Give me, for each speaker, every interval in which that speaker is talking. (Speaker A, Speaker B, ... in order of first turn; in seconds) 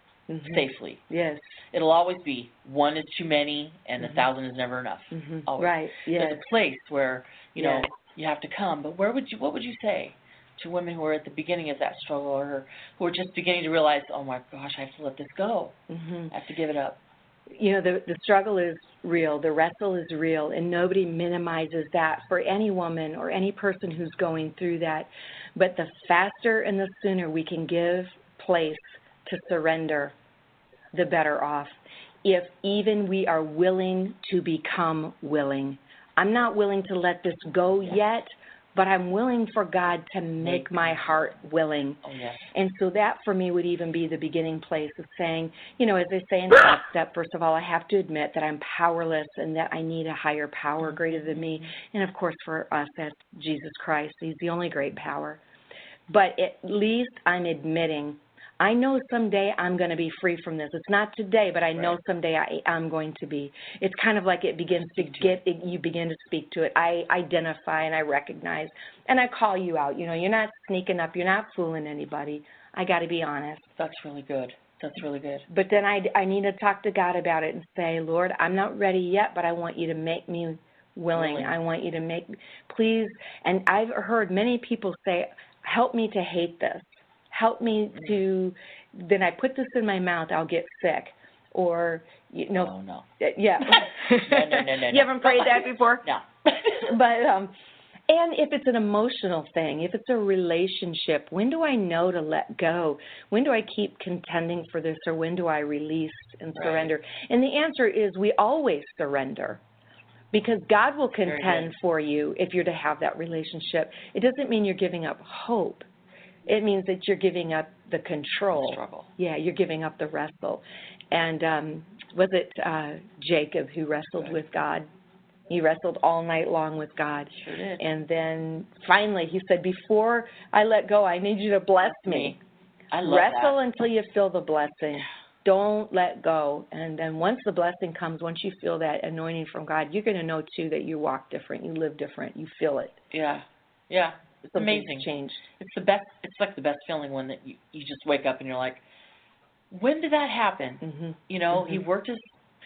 Speaker A: 0.3-1.4, 4.0-4.3, 5.1-6.5, 7.6-7.9, 15.9-16.3, 17.5-30.1, 30.9-42.0, 42.5-55.4, 56.1-73.7, 75.5-96.1, 96.8-97.5, 98.1-109.6, 110.3-115.9, 116.5-124.9, 125.5-132.4, 133.0-143.0, 144.6-145.5, 150.8-151.8
Speaker B: 0.5-1.0, 1.7-15.8, 16.3-17.0, 40.4-41.0, 42.0-42.5, 50.9-51.7, 64.8-65.4, 73.8-75.5, 81.1-81.6, 92.5-93.1, 93.6-96.9, 106.5-106.9, 111.2-111.7, 118.5-119.1, 127.3-127.8, 132.0-132.4, 132.9-133.6, 143.1-148.8, 149.7-152.4